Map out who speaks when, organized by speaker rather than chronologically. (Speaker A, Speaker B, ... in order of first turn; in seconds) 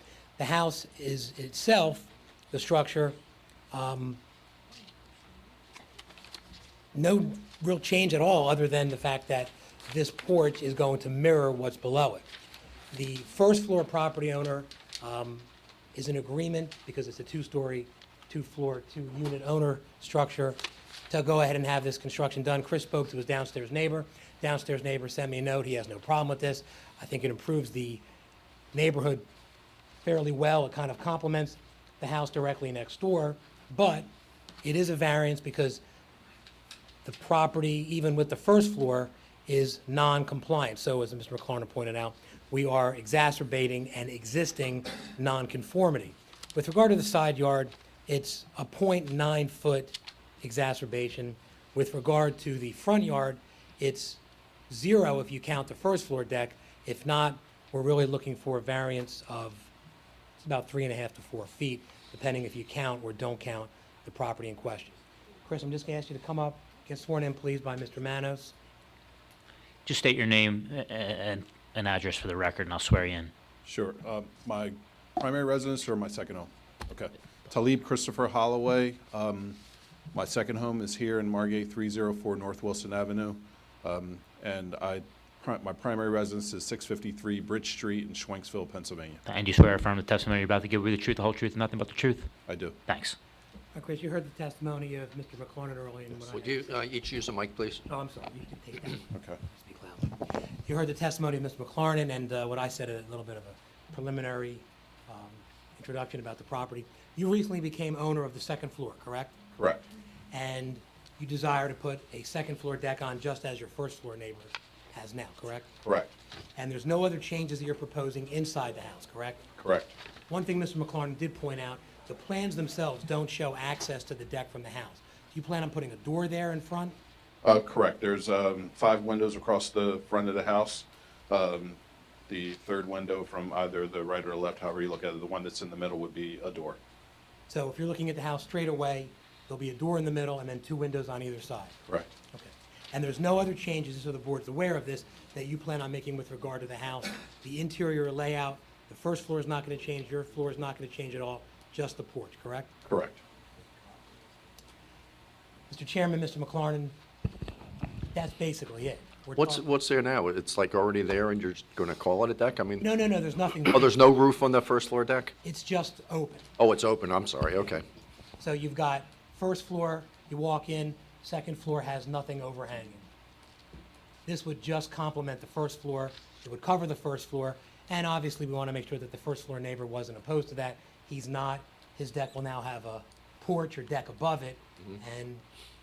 Speaker A: 0.4-3.1, 3.7-4.2, 6.9-12.2, 12.9-28.0, 28.7-29.2, 30.0-34.1, 34.6-35.8, 37.0-59.7, 60.4-68.5, 93.7-96.8, 97.9-109.3, 110.3-115.7, 116.5-119.4, 120.3-127.0, 137.5-141.8, 142.3-152.7, 155.7-156.9, 158.1-159.6, 162.8-163.9, 165.4-166.4, 168.4-173.0, 174.2-185.4
Speaker B: 69.8-73.3, 89.2-92.3, 92.9-93.2
Speaker C: 73.6-79.6, 80.1-89.2, 92.5-92.8, 99.1-99.4, 109.6-109.8, 115.8-116.1, 119.6-119.9, 127.4-136.8, 152.9-153.2
Speaker D: 96.1-97.8, 159.3-163.0, 163.6-165.3, 166.6-167.8